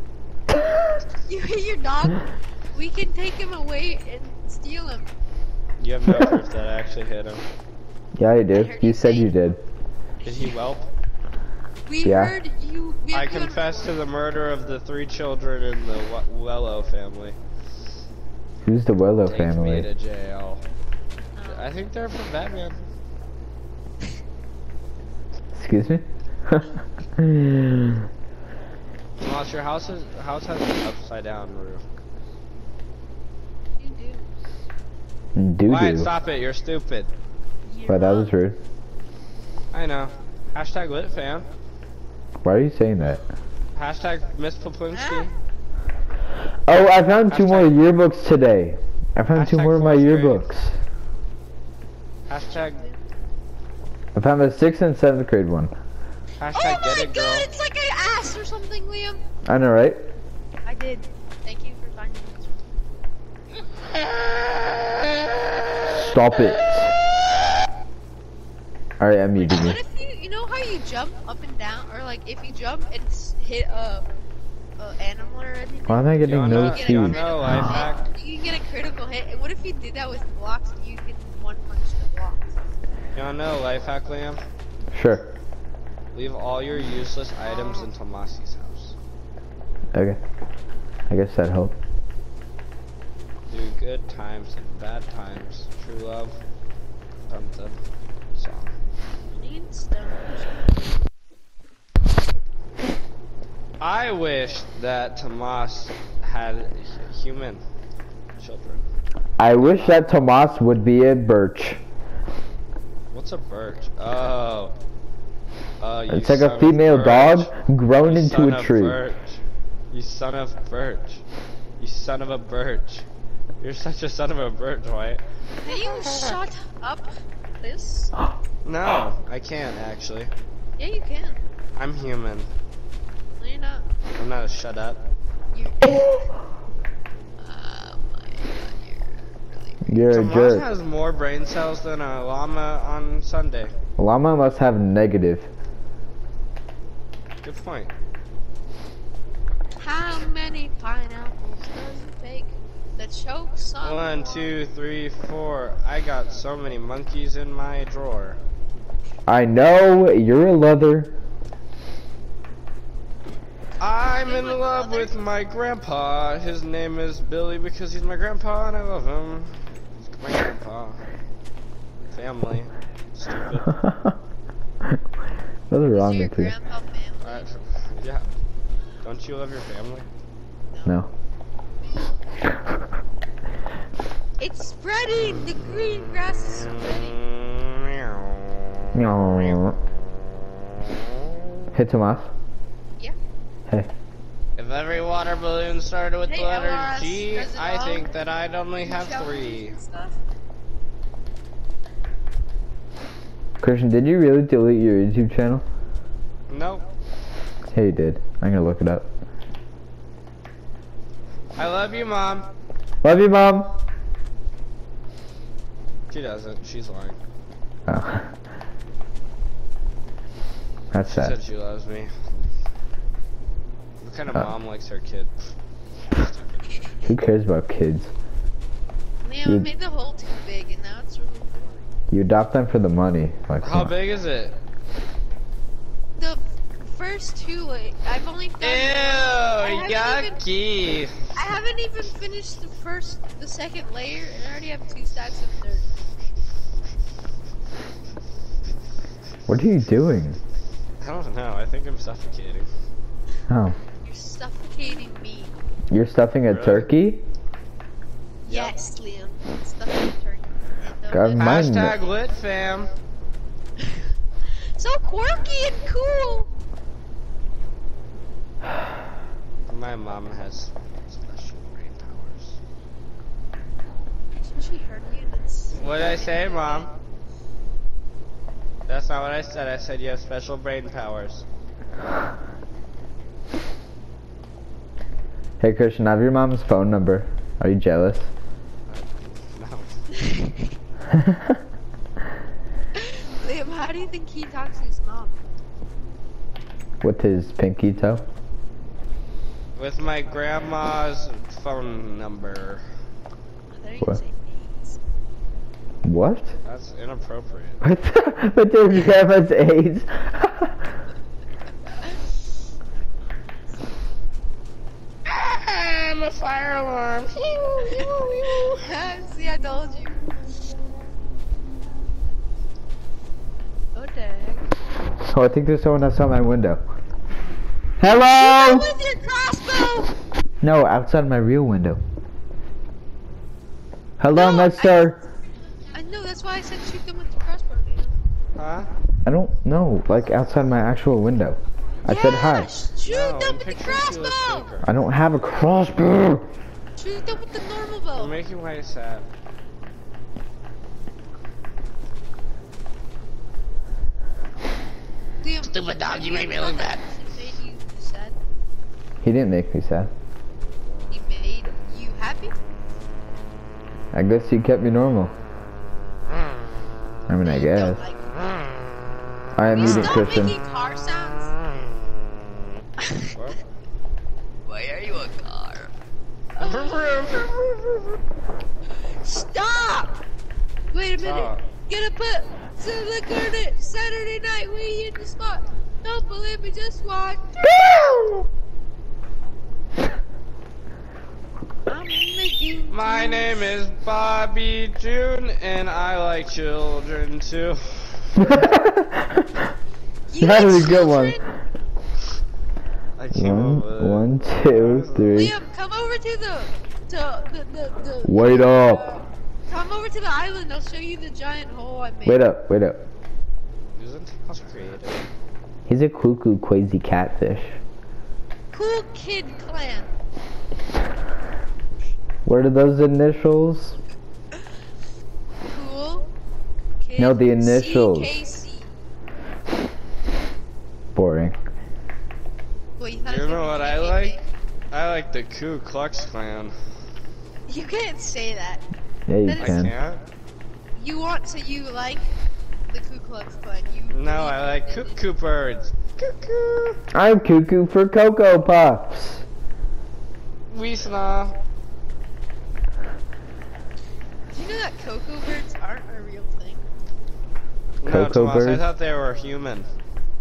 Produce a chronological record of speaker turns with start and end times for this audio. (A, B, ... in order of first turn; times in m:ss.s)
0:01.3-0:05.1 A
0:05.8-0:07.4 B
0:08.2-0:09.6 C
0:08.5-0:09.4 A
0:10.2-0:10.9 B
0:11.9-0:14.0 A
0:12.0-0:12.3 C
0:13.1-0:17.4 B
0:18.6-0:19.9 C
0:19.2-0:20.6 B
0:21.4-0:21.8 A
0:21.5-0:22.9 B
0:25.6-0:28.0 C
0:29.2-0:31.8 B
0:33.8-0:34.3 A
0:35.4-0:36.1 C
0:35.7-0:37.1 B
0:37.6-0:38.3 A
0:37.9-0:38.6 C
0:39.7-0:41.5 B
0:42.4-0:43.2 C
0:43.8-0:45.3 B
0:44.9-0:45.3 A
0:46.7-0:50.8 C
0:47.3-0:47.8 B
0:49.3-0:50.5 B
0:52.3-0:52.8 B
0:52.5-0:53.0 A
0:54.2-0:55.7 C
0:56.4-0:57.5 B
0:56.5-0:59.2 A
0:59.4-1:00.0 C
1:00.6-1:02.6 A
1:03.9-1:06.6 B
1:05.9-1:06.9 C
1:09.0-1:09.8 C
1:09.4-1:14.1 A
1:14.8-1:22.6 A
1:15.9-1:17.7 C
1:16.2-1:18.0 B
1:23.1-1:24.4 B
1:24.9-1:25.3 C
1:26.1-1:29.0 B
1:29.9-1:30.2 C
1:31.1-1:31.8 C
1:33.5-1:36.3 B
1:37.3-1:37.8 B
1:38.4-1:38.7 B
1:39.4-1:40.7 A
1:43.8-1:47.6 B
1:48.4-1:48.8 B
1:49.4-1:51.8 C
1:49.6-1:50.0 B
1:53.1-1:54.7 B
1:55.8-1:57.5 B
1:56.1-1:59.0 C
1:58.0-1:59.4 B
1:59.9-2:01.2 B
2:01.8-2:03.1 B
2:03.6-2:06.4 B
2:05.6-2:07.1 A
2:07.6-2:08.1 A
2:08.6-2:10.3 B
2:10.8-2:11.4 A
2:11.8-2:12.5 B
2:13.4-2:13.9 A
2:14.2-2:15.0 B
2:15.5-2:16.3 A
2:17.4-2:20.0 A
2:19.9-2:20.7 C
2:20.1-2:23.7 B
2:24.0-2:25.5 C
2:27.4-2:27.9 B
2:29.8-2:34.6 A
2:33.8-2:38.4 B
2:39.3-2:41.1 C
2:43.8-2:51.0 B
2:44.2-2:45.2 A
2:52.1-2:53.8 B
2:53.8-2:54.2 C
2:55.7-2:56.5 C
2:55.9-2:57.5 A
2:57.2-2:58.3 B
2:59.0-3:00.1 B
3:00.7-3:01.0 A
3:04.4-3:07.2 A
3:06.6-3:09.6 B
3:08.9-3:09.8 C
3:10.8-3:11.0 B
3:11.7-3:12.3 C
3:14.6-3:19.8 B
3:16.3-3:18.1 A
3:18.8-3:20.2 A
3:23.6-3:25.6 C
3:26.5-3:26.8 B
3:27.7-3:29.1 C
3:31.6-3:32.5 B
3:33.0-3:33.8 C
3:36.1-3:37.2 B
3:37.9-3:38.3 C
3:40.9-3:41.4 C
3:41.0-3:42.5 B
3:44.0-3:45.4 B
3:46.0-3:46.7 B
3:47.0-3:48.1 C
3:49.2-3:51.9 A
3:52.1-3:53.9 C
3:53.6-3:54.6 B
3:56.2-4:00.4 A
3:58.6-4:01.1 B
4:01.4-4:05.9 A
4:09.5-4:10.4 C
4:11.0-4:12.7 B
4:13.5-4:13.8 C
4:14.0-4:15.5 A
4:15.9-4:17.2 C
4:16.5-4:16.9 B
4:18.4-4:18.7 B
4:18.5-4:22.1 A
4:21.1-4:22.0 C
4:21.4-4:22.9 B
4:24.8-4:26.5 A
4:29.7-4:32.6 B
4:34.4-4:36.9 A
4:35.8-4:36.9 B
4:38.9-4:41.5 B
4:45.6-4:48.3 C
4:48.9-4:49.9 B
4:50.2-4:50.6 A
4:51.1-4:51.5 C
4:53.0-4:55.4 A
4:57.0-4:58.2 C
4:59.8-5:02.8 B
5:03.7-5:05.0 A
5:06.0-5:06.5 C
5:06.6-5:07.8 B
5:07.8-5:10.8 C
5:15.2-5:18.9 B
5:18.4-5:20.2 A
5:24.0-5:24.7 A
5:25.2-5:26.8 C
5:28.0-5:28.9 C
5:28.1-5:30.2 A
5:30.6-5:32.0 C
5:34.2-5:35.2 C
5:34.3-5:35.0 A
5:35.9-5:38.1 A
5:38.6-5:38.9 B
5:39.2-5:42.7 C
5:42.1-5:44.7 A
5:43.0-5:44.9 B
5:44.8-5:46.5 C
5:47.0-5:48.4 A
5:48.2-5:49.2 B
5:55.4-5:58.4 A
5:55.6-5:57.0 B
5:59.2-6:00.1 C
6:01.1-6:02.5 A
6:04.1-6:05.4 C
6:07.3-6:08.0 C
6:07.4-6:08.5 A
6:09.5-6:10.6 C
6:09.7-6:11.6 A
6:13.0-6:13.4 A
6:13.3-6:13.6 B
6:14.6-6:15.9 A
6:16.5-6:17.5 A
6:16.6-6:18.2 B
6:19.1-6:20.2 A
6:20.9-6:27.6 A
6:21.2-6:21.6 B
6:27.6-6:28.5 C
6:31.9-6:33.6 A
6:32.9-6:38.5 B
6:38.4-6:39.4 C
6:40.3-6:41.5 A
6:40.4-6:41.4 C
6:43.2-6:45.4 B
6:43.4-6:45.5 C
6:45.3-6:52.4 A
6:48.2-6:49.1 C
6:52.2-6:53.0 C
6:54.0-6:55.3 B
6:55.9-6:57.8 C
6:58.7-7:00.1 A
7:02.4-7:04.0 C
7:05.6-7:06.3 A
7:07.0-7:08.9 A
7:07.2-7:08.3 C
7:11.1-7:11.6 C
7:13.0-7:14.4 A
7:13.2-7:14.4 B
7:14.9-7:16.7 B
7:17.7-7:18.8 A
7:19.3-7:19.9 C
7:19.4-7:19.9 A
7:19.6-7:20.2 B
7:20.9-7:22.3 A
7:22.9-7:25.2 A
7:24.1-7:27.0 B
7:27.1-7:29.4 C
7:30.7-7:31.6 B
7:34.5-7:36.8 A
7:38.0-7:39.9 B
7:38.1-7:38.9 C